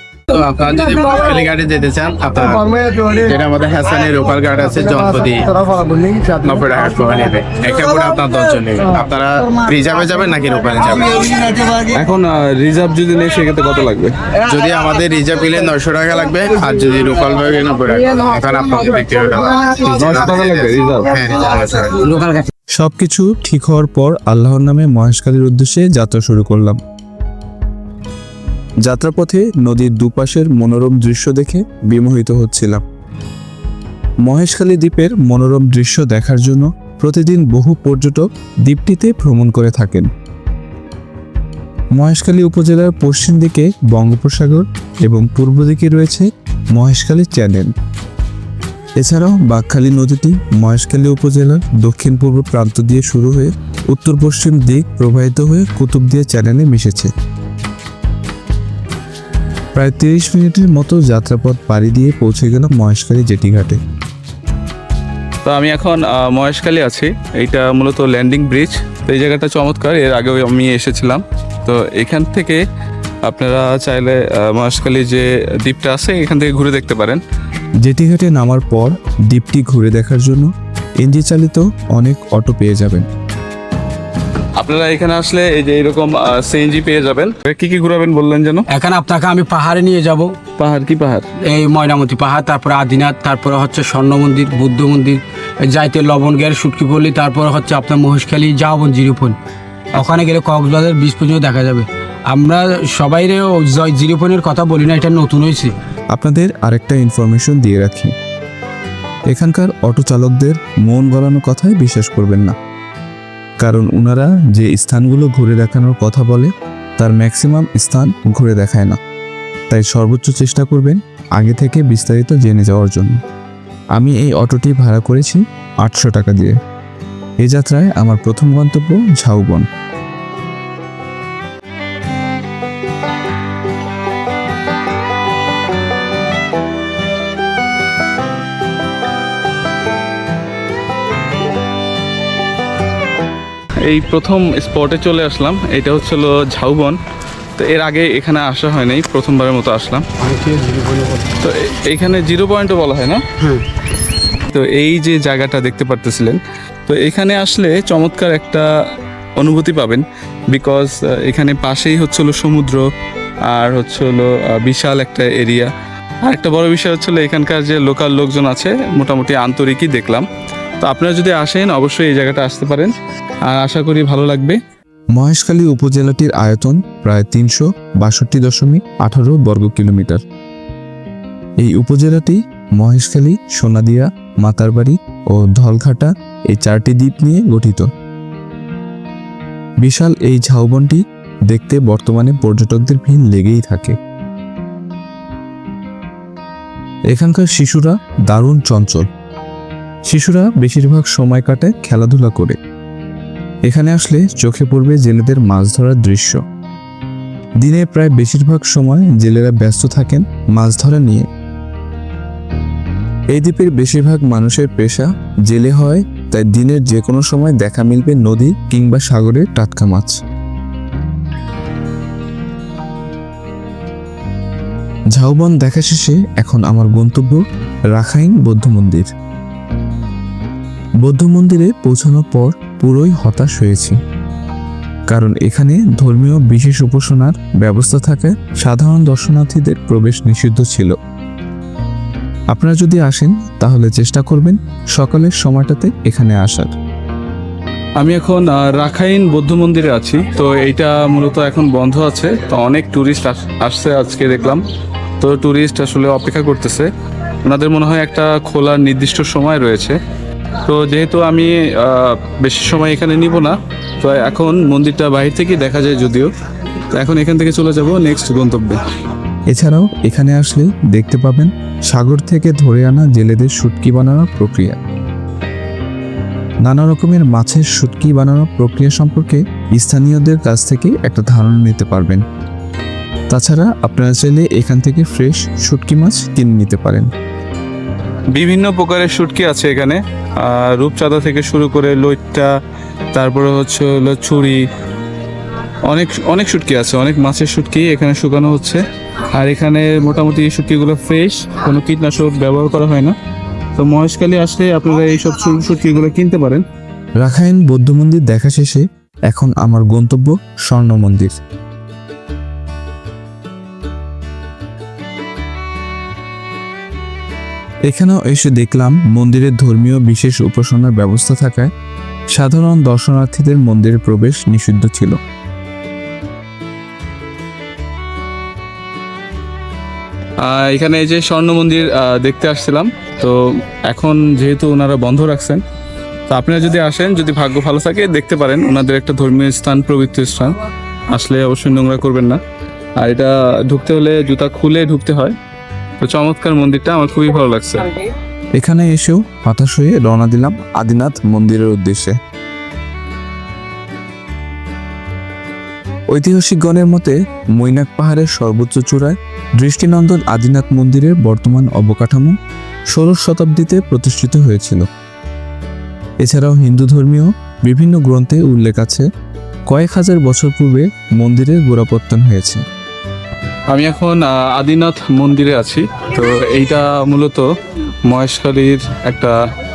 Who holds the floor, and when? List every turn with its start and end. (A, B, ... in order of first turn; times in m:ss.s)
0:00.3-0:11.7 A
0:11.7-0:14.2 B
0:14.4-0:22.0 A
0:19.8-0:21.1 B
0:22.0-0:22.5 C
0:22.8-0:26.8 D
0:28.8-0:32.8 D
0:34.2-0:40.1 D
0:42.0-0:47.7 D
0:49.0-0:57.1 D
0:59.8-1:03.8 D
1:05.4-1:12.6 B
1:13.3-1:17.2 B
1:17.8-1:23.1 D
1:24.6-1:28.7 B
1:28.7-1:30.4 C
1:30.6-1:31.3 B
1:31.4-1:39.4 C
1:39.9-1:45.7 C
1:46.1-1:48.1 D
1:49.3-1:52.6 D
1:53.6-1:59.0 D
1:59.7-2:03.2 D
2:04.0-2:06.6 D
2:07.4-2:09.7 D
2:23.9-2:27.0 B
2:27.6-2:30.1 B
2:30.2-2:31.3 C
2:31.4-2:33.2 B
2:33.4-2:33.7 C
2:34.5-2:38.7 B
2:39.4-2:42.9 B
2:43.5-2:45.7 B
2:46.3-2:50.3 B
2:50.8-2:52.9 B
2:53.5-2:54.6 B
2:55.1-3:00.2 D
3:01.6-3:07.9 D
3:09.8-3:14.0 D
3:17.1-3:19.1 D
3:20.1-3:22.6 D
3:23.7-3:26.4 D
3:27.6-3:31.3 D
3:33.3-3:40.2 D
3:45.1-3:47.4 D
3:47.9-3:49.1 D
3:51.0-3:54.0 D
3:55.1-4:01.0 D
4:02.5-4:06.7 D
4:08.0-4:14.6 B
4:15.2-4:16.9 B
4:17.4-4:20.0 B
4:20.6-4:26.3 B
4:26.9-4:28.8 B
4:29.5-4:34.8 D
4:36.6-4:42.2 D
4:43.3-4:47.1 D
4:48.3-4:52.5 B
4:53.1-4:54.6 B
4:55.9-4:58.8 B
4:59.4-5:03.2 B
5:03.8-5:06.6 B
5:07.2-5:11.4 D
5:17.9-5:21.7 D
5:22.3-5:25.2 D
5:30.4-5:33.4 B
5:33.9-5:35.6 B
5:36.3-5:40.6 B
5:41.1-5:42.4 B
5:43.0-5:45.4 B
5:46.0-5:48.0 B
5:48.6-5:52.2 D
5:56.1-6:02.4 D
6:02.9-6:04.9 D
6:06.2-6:09.1 D
6:09.7-6:12.6 D
6:13.7-6:17.4 B
6:18.1-6:19.4 B